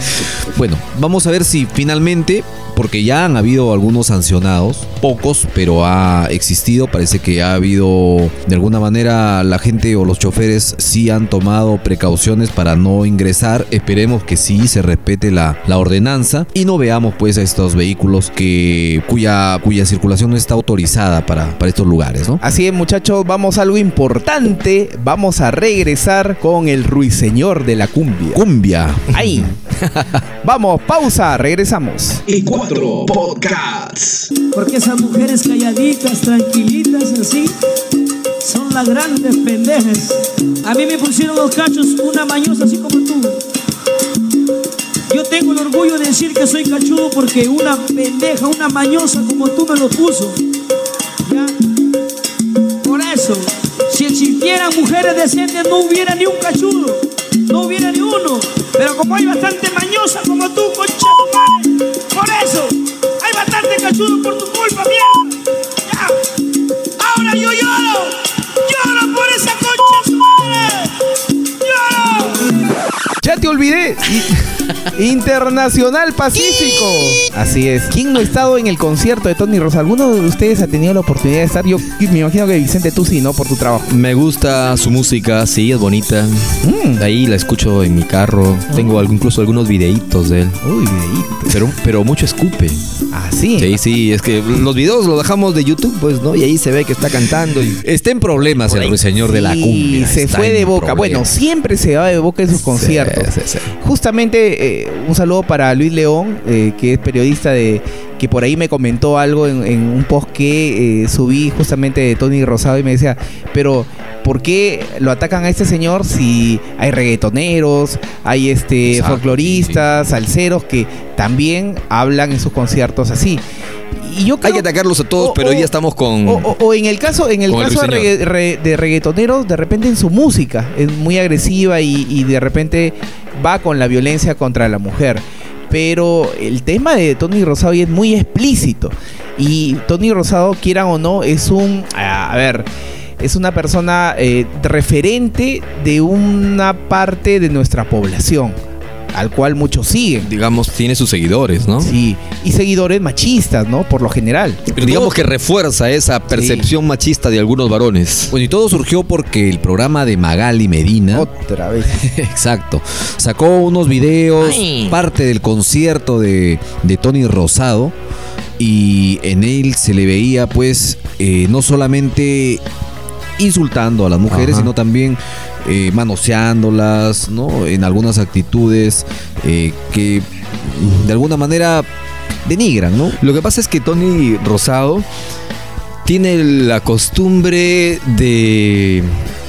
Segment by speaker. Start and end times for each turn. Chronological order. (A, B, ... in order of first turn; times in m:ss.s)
0:00.4-0:22.4 A
0:22.4-0:28.4 B
0:28.3-0:29.2 A
0:29.1-0:29.6 B
0:30.4-0:32.2 B
0:32.3-0:34.3 C
0:34.5-0:37.5 D
0:38.4-0:43.4 D
0:45.1-0:50.4 D
0:52.8-1:05.3 D
1:05.9-1:06.2 D
1:07.0-1:10.9 D
1:11.6-1:12.5 D
1:13.2-1:23.9 B
1:23.9-1:30.6 E
1:26.6-1:27.0 B
1:30.6-1:31.5 B
1:31.5-1:32.8 E
1:33.1-1:33.7 B
1:33.6-1:37.8 E
1:37.8-1:41.2 A
1:38.6-1:39.0 E
1:39.2-2:03.4 B
1:40.8-1:41.1 E
1:42.5-1:43.7 E
1:58.9-1:59.8 A
2:04.0-2:04.6 B
2:04.4-2:06.5 E
2:05.2-2:05.7 B
2:06.2-2:22.7 B
2:07.5-2:08.1 E
2:23.2-2:28.6 B
2:29.1-2:30.3 B
2:30.2-2:31.9 E
2:31.8-2:35.2 B
2:34.8-2:38.3 E
2:36.3-2:36.7 B
2:38.3-2:41.3 A
2:41.1-2:42.0 B
2:41.9-2:47.9 A
2:44.4-2:44.9 E
2:48.6-2:52.6 A
2:53.4-3:01.9 A
2:54.3-2:54.7 E
3:02.4-3:03.2 A
3:03.2-3:05.0 E
3:06.0-3:09.2 E